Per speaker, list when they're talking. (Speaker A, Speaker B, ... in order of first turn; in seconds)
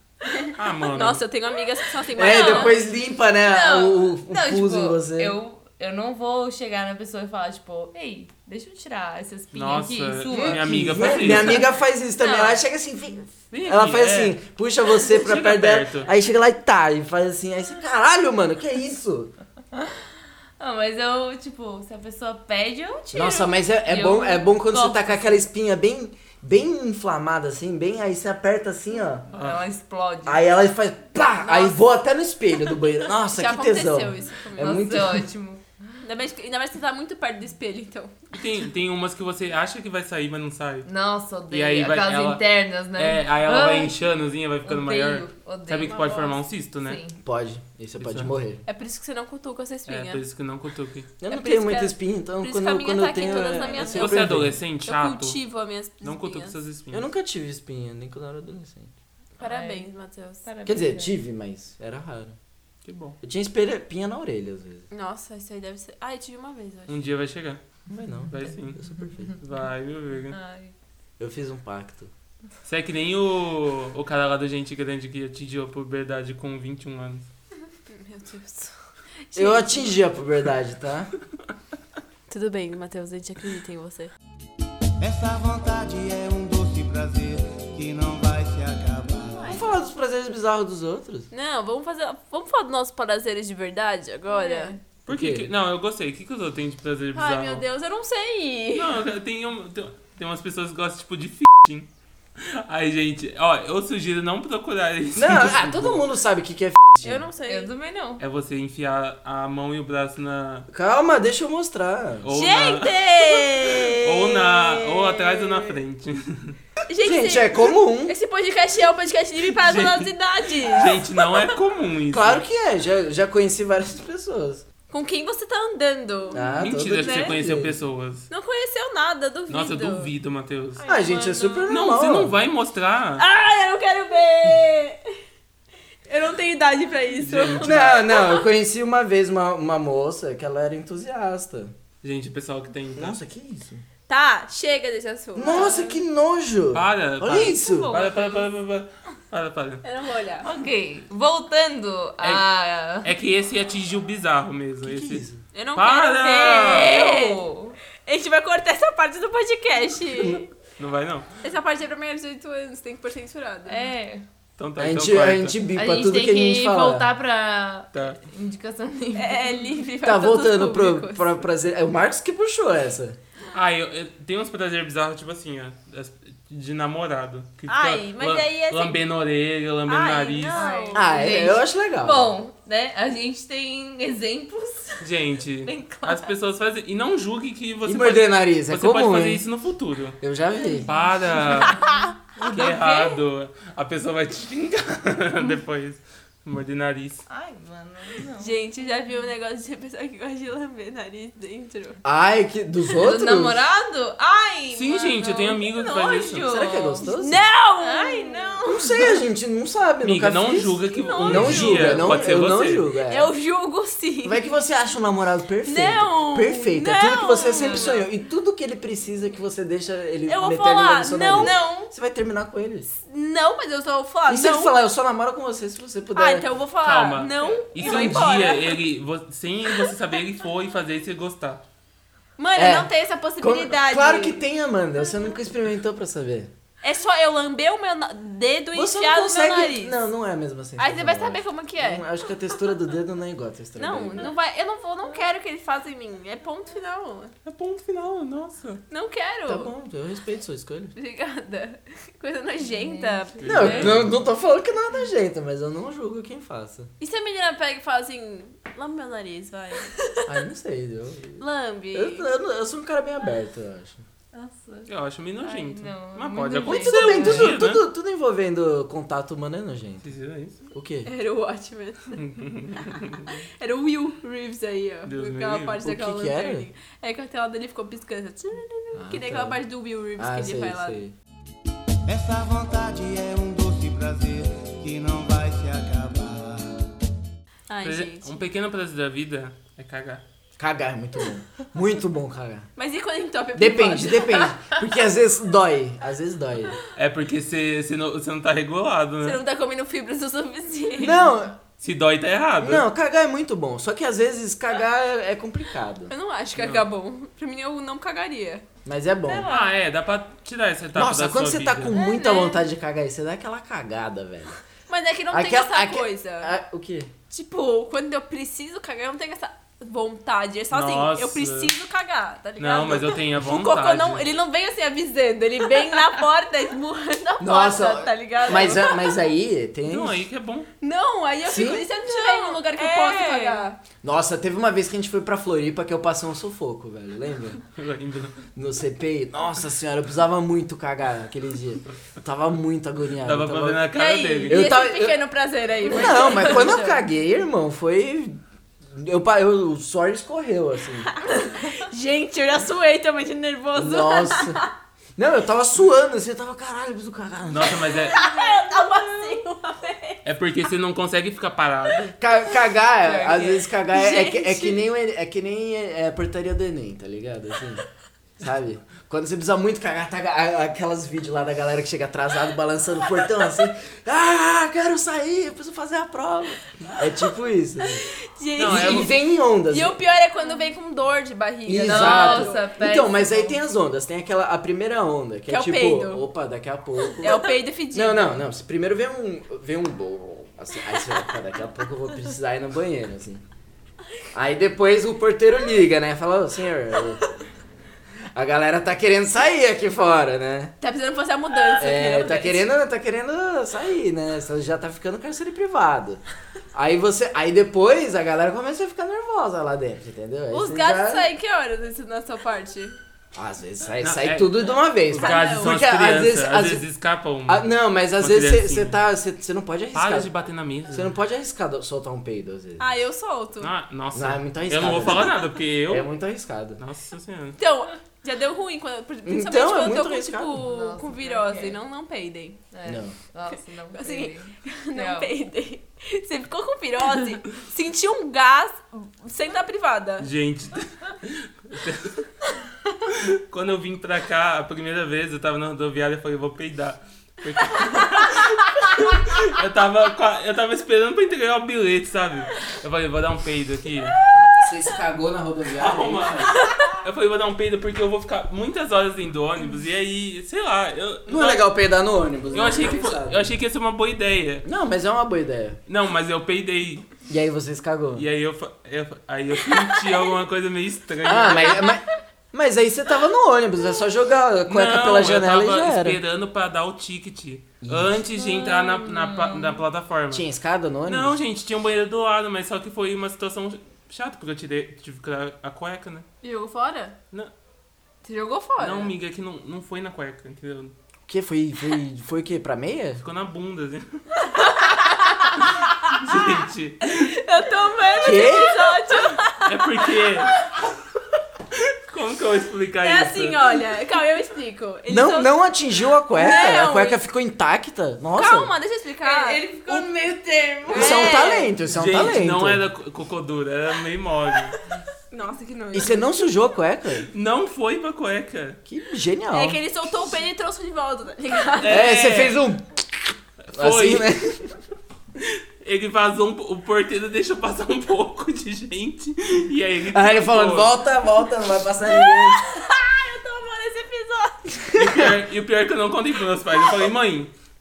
Speaker A: 0.3-2.8, 31.4-31.8, 33.3-34.9, 36.0-38.2, 45.8-46.4, 48.6-50.2, 51.3-56.5, 59.4-60.4, 64.9-67.0, 77.9-78.7, 79.3-80.0, 82.3-84.1, 89.3-89.8, 91.3-94.8, 97.1-99.0, 107.0-107.7, 112.3-115.8, 116.9-121.5, 124.9-127.3, 128.3-130.1, 133.2-135.1, 136.1-138.4, 144.1-145.9, 149.8-150.5, 155.5-157.4, 158.0-160.5, 161.4-163.8, 169.1-171.4, 177.7-179.0, 179.9-181.3, 191.5-192.1, 198.4-202.0, 207.0-209.1, 210.9-212.3, 213.1-214.4, 215.6-218.0, 220.3-221.8, 223.0-224.7, 226.1-228.8, 232.4-234.4, 236.8-240.1, 240.8-242.1, 243.8-247.3, 248.9-249.7, 250.9-254.0, 257.0-260.0, 261.4-262.3, 271.0-272.2, 273.6-281.0, 287.7-288.4, 292.8-294.6, 299.2-301.3, 306.1-308.6, 311.9-312.6, 314.9-316.5, 317.3-329.2, 330.8-333.8, 343.9-347.0, 351.1-354.7, 357.9-360.2, 363.9-364.9, 378.0-379.1, 379.7-382.6, 385.5-386.2, 387.2-388.4, 400.8-402.7, 410.5-412.9, 415.1-415.8, 422.8-423.7, 427.6-432.6, 433.9-440.3, 486.4-487.1, 488.2-489.1, 494.4-496.1, 497.0-500.2, 503.0-505.6, 506.3-507.2, 508.3-510.1, 510.9-511.8, 515.3-516.4, 519.5-522.1, 532.2-535.0
Speaker B: 0.4-1.2, 9.5-11.7, 13.5-14.4, 15.0-16.1, 29.3-29.6, 38.3-40.9, 41.5-47.0, 48.0-48.3, 49.9-51.1, 53.9-55.4, 56.0-57.1, 62.8-63.2, 66.9-67.6, 68.3-68.8, 69.3-70.4, 72.6-77.3, 95.0-97.6, 98.7-106.0, 108.2-110.7, 112.2-116.6, 119.4-122.4, 126.6-128.3, 129.5-130.8, 131.7-133.2, 137.2-138.0, 142.0-143.2, 146.7-149.8, 152.2-152.4, 153.0-157.0, 160.8-161.3, 164.6-165.6, 167.9-168.2, 173.5-180.7, 185.0-190.2, 190.8-191.9, 192.4-197.2, 204.7-206.5, 210.0-212.8, 226.8-231.6, 247.4-248.8, 253.4-254.1, 264.9-267.8, 270.0-270.6, 272.1-273.3, 275.1-275.8, 287.8-290.2, 296.9-299.4, 301.8-302.9, 306.6-306.8, 309.5-311.9, 320.7-321.7, 322.6-324.2, 329.8-330.7, 337.7-338.4, 343.2-344.7, 357.5-358.2, 360.2-362.2, 378.6-379.1, 414.0-419.0, 419.9-421.1, 423.6-426.1, 426.8-427.6, 440.2-442.3, 443.1-454.2, 455.8-461.7, 462.5-464.6, 465.9-467.1, 468.1-471.9, 474.7-480.4, 481.0-486.2, 488.8-490.9, 493.2-494.2, 496.1-497.4, 499.5-500.6, 501.9-503.8, 511.9-514.8, 517.3-518.8, 521.8-522.6, 523.7-524.3, 525.4-530.9, 535.0-537.5
Speaker C: 2.1-5.4, 10.3-19.3, 23.1-29.2, 30.2-35.3, 47.2-48.6, 51.2-54.6, 56.9-58.9, 60.6-62.4, 63.2-64.8, 67.9-69.3, 71.2-72.1, 79.3-81.1, 89.5-91.3, 95.1-95.5, 105.1-107.2, 110.7-112.3, 117.0-118.1, 122.1-124.6, 126.3-127.8, 130.8-132.3, 137.6-141.7, 142.9-143.8, 145.3-147.9, 154.8-155.4, 164.8-167.1, 170.0-173.2, 180.9-182.3, 187.8-189.4, 190.2-190.9, 202.0-203.6, 206.4-207.4, 208.6-213.3, 214.2-222.9, 224.3-226.4, 227.8-228.2, 232.5-236.5, 238.7-244.3, 249.5-250.9, 253.4-256.9, 260.2-261.4, 261.9-264.0, 266.6-270.1, 270.7-271.1, 275.8-276.7, 278.9-279.6, 280.2-281.1, 290.6-292.7, 293.5-296.8, 301.0-301.5, 302.6-306.1, 308.8-309.5, 310.9-314.6, 315.3-317.1, 327.4-330.2, 331.4-331.9, 334.0-337.6, 338.6-343.9, 344.5-345.2, 345.8-351.1, 353.7-354.6, 355.1-357.8, 362.2-367.8, 368.4-378.0, 378.6-380.0, 381.6-393.4, 394.3-397.2, 398.3-400.7, 401.8-406.2, 406.7-411.3, 413.3-416.8, 417.5-420.3, 420.9-423.0, 424.1-426.8, 429.2-430.6, 432.8-433.1, 454.6-456.5, 461.2-463.4, 464.6-465.8, 467.3-468.2, 471.2-476.2, 477.8-478.2, 480.3-481.4, 491.3-493.2, 498.2-498.8, 505.1-508.7, 510.9-512.8, 515.9-517.3, 518.9-519.8, 521.9-523.0, 523.7-524.7, 530.1-532.6, 535.0-535.3
Speaker D: 2.2-2.8, 3.5-11.7, 12.2-12.6, 20.6-25.4, 29.3-30.4, 34.6-35.6, 40.8-43.9, 44.6-46.1, 46.8-47.2, 53.2-53.9, 59.4-59.9, 60.4-61.1, 70.3-70.7, 94.3-94.8, 107.5-108.2, 130.8-131.7, 145.4-145.9, 147.4-148.4, 150.4-153.1, 156.4-157.8, 163.7-164.2, 165.7-169.7, 180.5-185.1, 185.6-186.3, 190.6-193.2, 197.3-199.1, 202.9-207.1, 207.8-208.9, 221.3-221.9, 252.6-253.4, 264.3-264.9, 265.4-267.6, 309.3-309.6, 332.0-333.7, 363.0-363.7, 380.4-380.7, 381.7-383.6, 430.5-431.8, 432.7-435.3, 478.3-479.8, 509.2-511.7
Speaker E: 85.0-89.6, 282.1-286.8